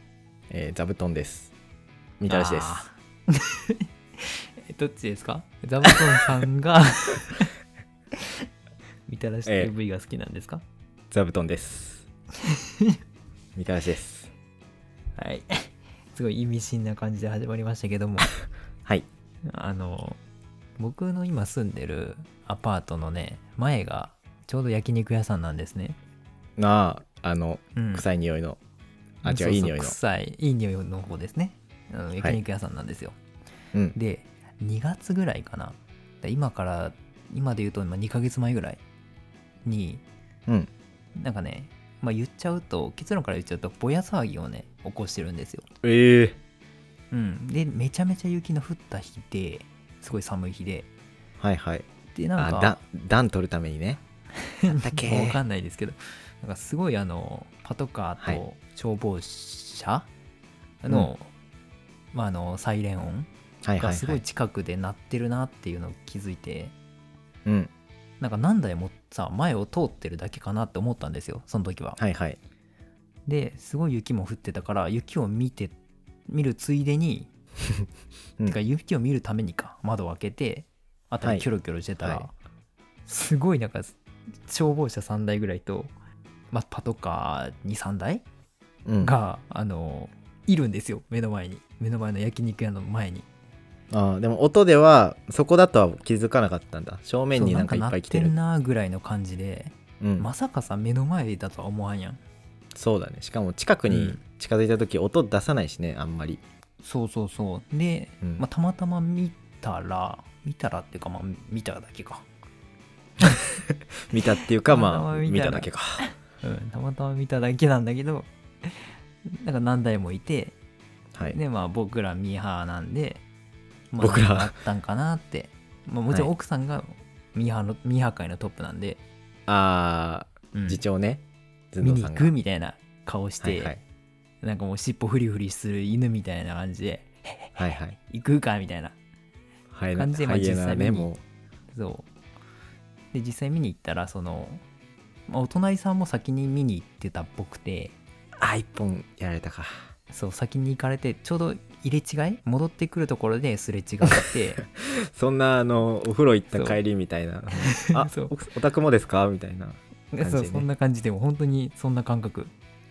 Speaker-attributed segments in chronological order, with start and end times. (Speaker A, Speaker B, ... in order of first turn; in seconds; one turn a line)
Speaker A: 0.5-1.5
Speaker A: 2.2-2.9
Speaker B: 2.3-7.5
Speaker B: 9.1-10.6
Speaker A: 9.5-9.7
Speaker A: 11.1-12.1
Speaker B: 12.4-13.0
Speaker A: 13.6-14.3
Speaker B: 15.2-18.3
Speaker B: 19.5-20.2
Speaker B: 20.8-26.0
Speaker A: 26.6-28.6
Speaker B: 27.8-28.1
Speaker B: 29.2-33.2
Speaker A: 29.2-30.0
Speaker B: 33.9-38.8
Speaker B: 39.6-40.0
Speaker B: 41.2-45.6
Speaker A: 45.8-46.4
Speaker B: 47.1-50.9
Speaker A: 51.4-51.9
Speaker B: 52.1-52.8
Speaker A: 52.4-54.0
Speaker B: 54.5-60.1
Speaker A: 54.7-55.4
Speaker B: 60.8-61.3
Speaker B: 62.1-63.3
Speaker A: 63.6-64.2
Speaker B: 63.8-66.7
Speaker A: 67.5-67.7
Speaker B: 68.2-72.0
Speaker A: 72.0-72.4
Speaker B: 73.3-75.8
Speaker B: 76.3-77.3
Speaker B: 78.4-82.3
Speaker A: 82.0-82.3
Speaker B: 83.1-85.9
Speaker B: 86.5-88.2
Speaker A: 88.9-89.2
Speaker B: 89.0-93.3
Speaker A: 93.9-98.4
Speaker B: 97.3-102.2
Speaker A: 100.0-100.3
Speaker A: 102.8-106.4
Speaker B: 103.9-104.2
Speaker B: 106.8-112.2
Speaker A: 114.1-116.0
Speaker B: 114.6-120.5
Speaker B: 121.2-123.2
Speaker B: 123.9-129.0
Speaker A: 124.0-124.5
Speaker A: 129.5-132.3
Speaker B: 130.5-130.8
Speaker B: 131.8-133.8
Speaker A: 133.4-133.8
Speaker B: 134.4-138.9
Speaker A: 137.6-138.0
Speaker A: 139.7-141.2
Speaker B: 139.9-141.1
Speaker B: 141.7-142.1
Speaker B: 143.1-144.6
Speaker B: 145.3-148.0
Speaker A: 148.4-149.9
Speaker B: 150.1-154.6
Speaker A: 154.6-160.7
Speaker B: 156.5-156.8
Speaker B: 157.7-158.4
Speaker B: 160.1-162.5